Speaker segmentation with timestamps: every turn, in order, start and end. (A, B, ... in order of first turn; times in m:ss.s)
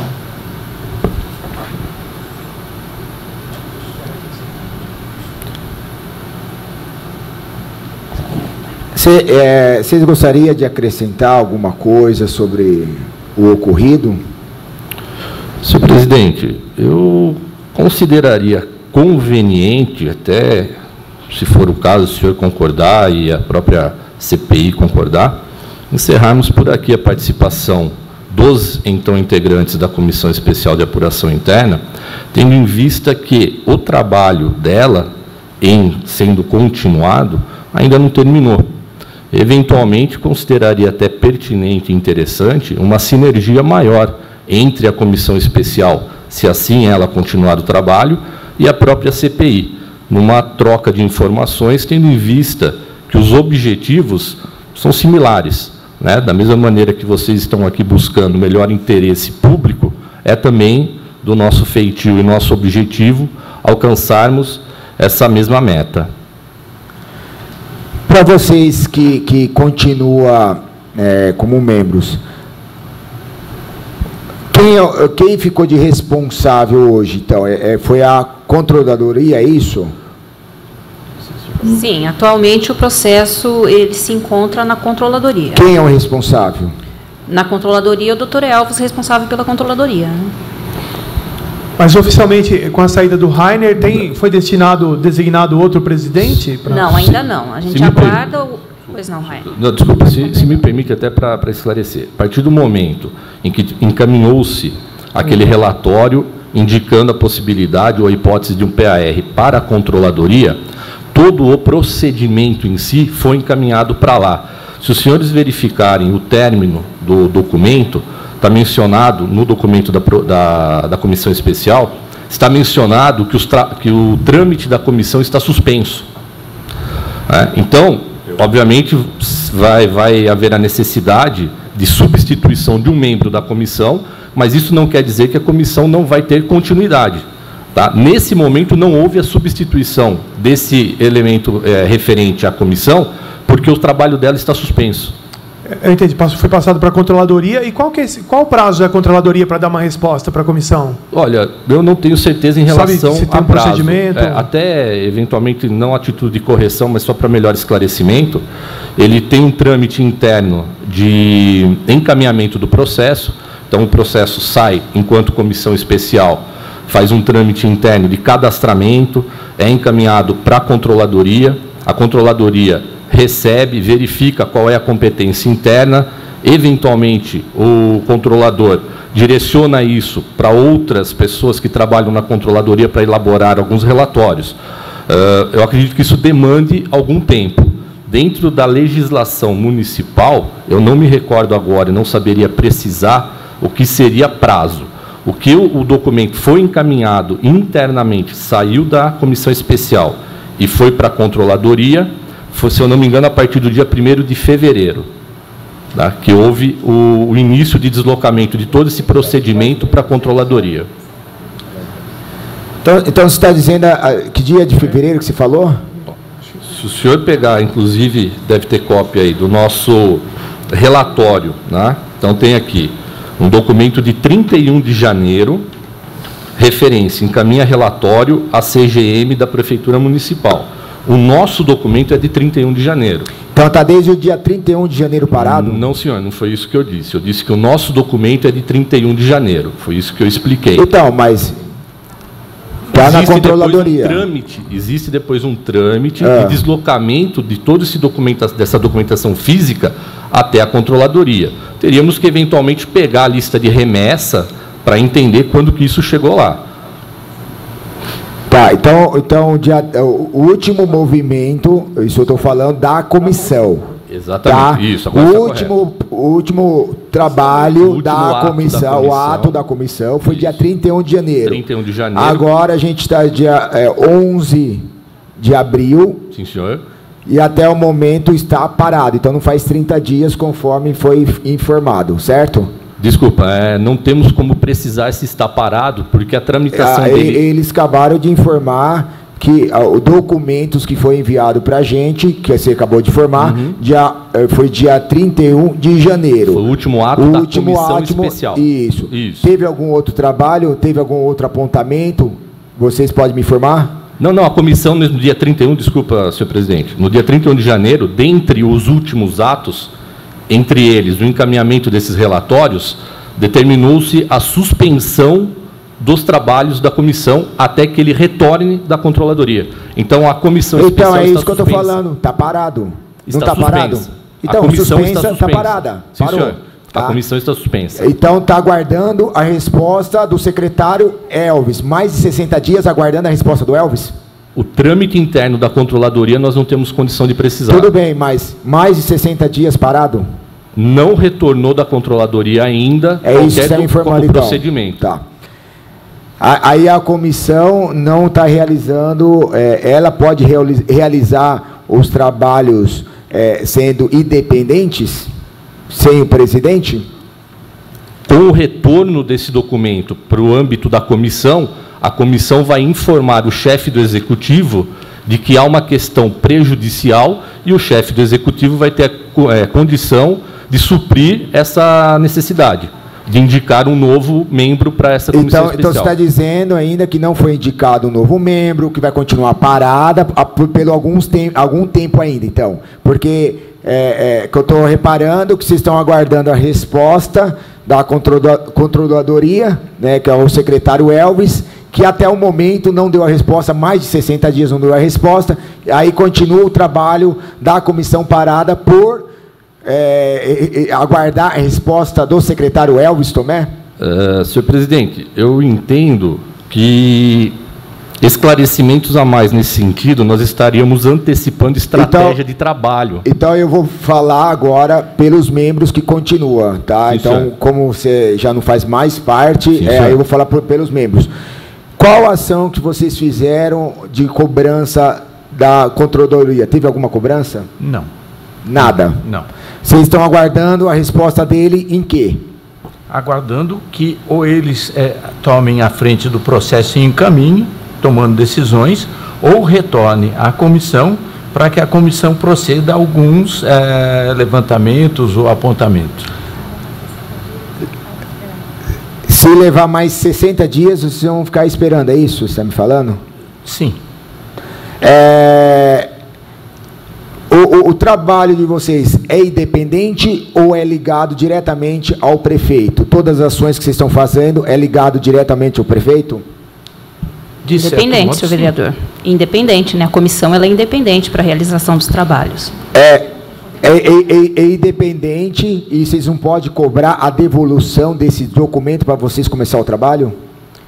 0:08.9-0:14.2 A
0:15.6-0:20.8 B
0:21.3-0:31.8 B
0:32.3-0:35.1 B
0:35.6-0:38.7 B
0:39.3-1:06.1 B
1:08.1-1:12.2 A
1:14.5-1:19.9 A
1:21.6-1:25.6 C
1:25.5-1:26.7 A
1:27.3-1:30.3 C
1:31.8-1:37.0 D
1:36.7-1:39.5 C
1:37.7-1:38.2 B
1:39.4-1:50.6 B
1:51.1-2:06.1 B
2:07.3-2:25.2 B
2:25.7-2:31.0 D
2:31.1-2:38.4 B
2:32.7-2:34.5 D
2:39.0-3:04.6 B
3:05.1-3:25.1 B
3:25.9-3:30.9 B
3:32.8-3:35.8 A
3:36.6-3:45.6 B
3:46.6-3:53.3 B
3:53.5-3:55.8 A
3:55.3-4:00.9 B
4:00.8-4:01.6 A
4:02.9-4:04.2 A
4:02.9-4:16.6 B
4:06.2-4:06.6 A
4:18.5-4:23.9 A
4:24.1-4:25.7 B
4:24.4-4:31.6 A
4:27.6-4:29.6 B
4:30.3-4:30.6 B
4:31.4-4:32.4 B
4:32.1-4:36.3 A
4:36.3-4:36.8 B
4:37.2-4:42.7 A
4:43.0-4:47.4 B
4:46.7-4:56.6 A
4:53.4-4:53.8 B
4:56.5-4:59.5 B
4:57.2-5:04.0 A
5:04.2-5:09.9 B
5:10.5-5:22.0 B
5:20.8-5:27.2 A
5:23.3-5:28.1 B
5:28.0-5:34.2 A
5:34.5-5:37.9 B
5:37.7-5:40.2 A
5:40.7-5:45.1 B
5:43.2-5:45.2 A
5:46.4-5:55.3 A
5:55.9-5:57.1 A
5:58.3-6:16.1 B
6:15.3-6:39.3 A
6:39.8-6:43.7 A
6:44.0-6:47.6 B
6:48.2-6:53.2 B
6:51.9-6:52.4 A
6:53.2-7:01.3 A
6:57.1-6:57.5 B
6:59.7-7:00.2 B
7:02.0-7:07.7 A
7:07.8-7:08.1 E
7:08.6-7:09.2 A
7:08.8-7:09.5 E
7:09.8-7:12.4 A
7:13.1-7:26.3 E
7:29.3-7:33.2 A
7:33.6-7:34.0 E
7:35.0-7:36.1 A
7:37.5-7:46.4 A
7:47.6-7:48.7 E
7:47.8-7:52.7 C
7:52.9-8:00.3 A